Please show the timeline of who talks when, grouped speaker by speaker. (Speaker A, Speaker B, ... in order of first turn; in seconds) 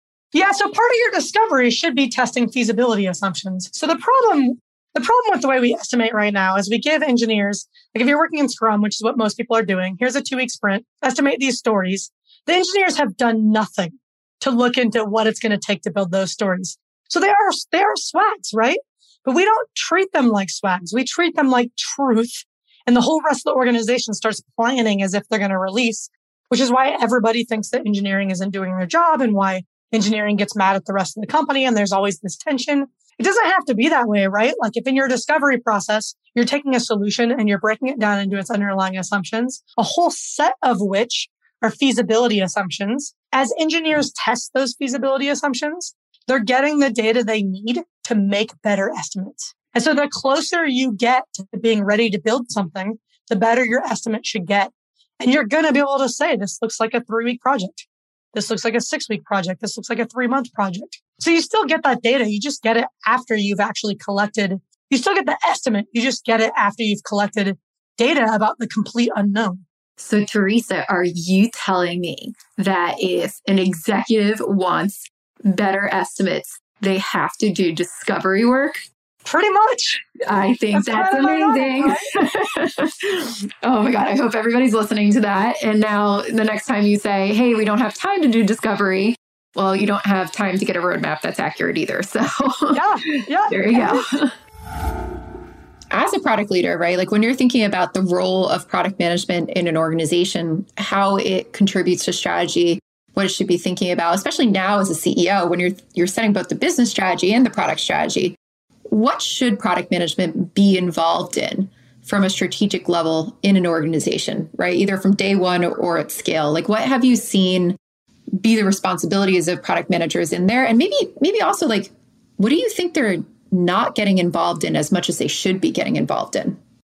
Speaker A: 0.3-69.6, 79.2-80.0, 80.7-82.1, 92.7-94.1
Speaker B: 70.0-78.8, 80.2-94.3, 95.9-108.4, 108.9-117.8, 118.3-126.6